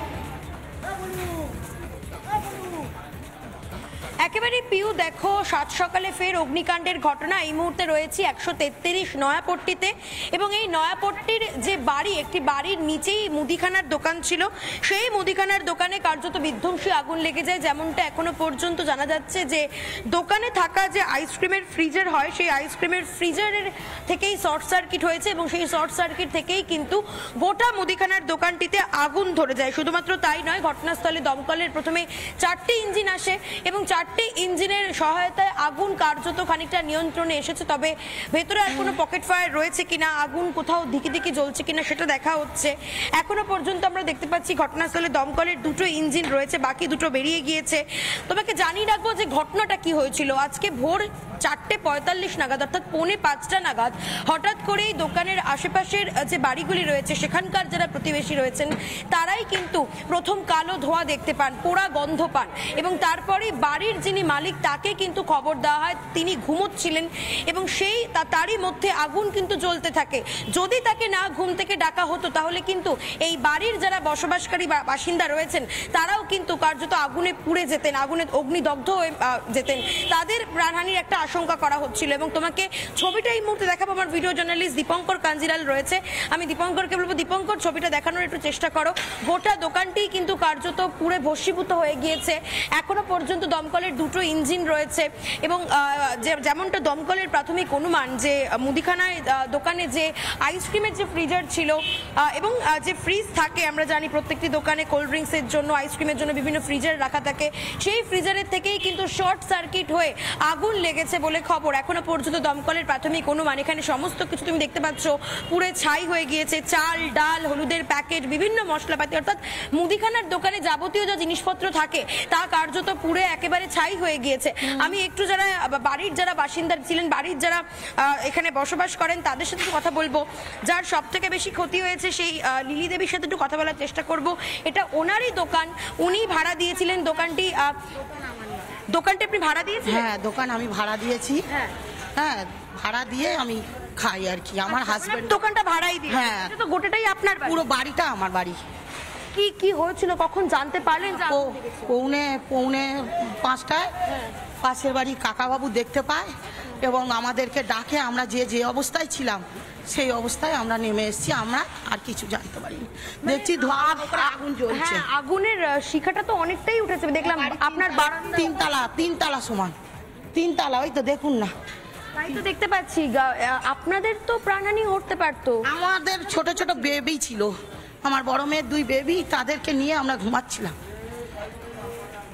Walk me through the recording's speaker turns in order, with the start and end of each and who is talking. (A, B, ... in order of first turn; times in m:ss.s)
0:04.2-2:17.9 A
2:18.9-2:20.1 A
2:19.8-2:21.5 B
2:22.2-2:25.4 B
2:24.7-2:27.6 A
2:26.1-2:26.5 B
2:27.4-2:28.6 B
2:29.3-2:31.5 A
2:31.2-2:33.9 B
2:34.6-2:45.1 B
2:43.2-2:48.5 A
2:47.2-2:49.8 B
2:50.3-2:51.5 B
2:52.2-2:55.7 A
2:55.6-3:00.8 B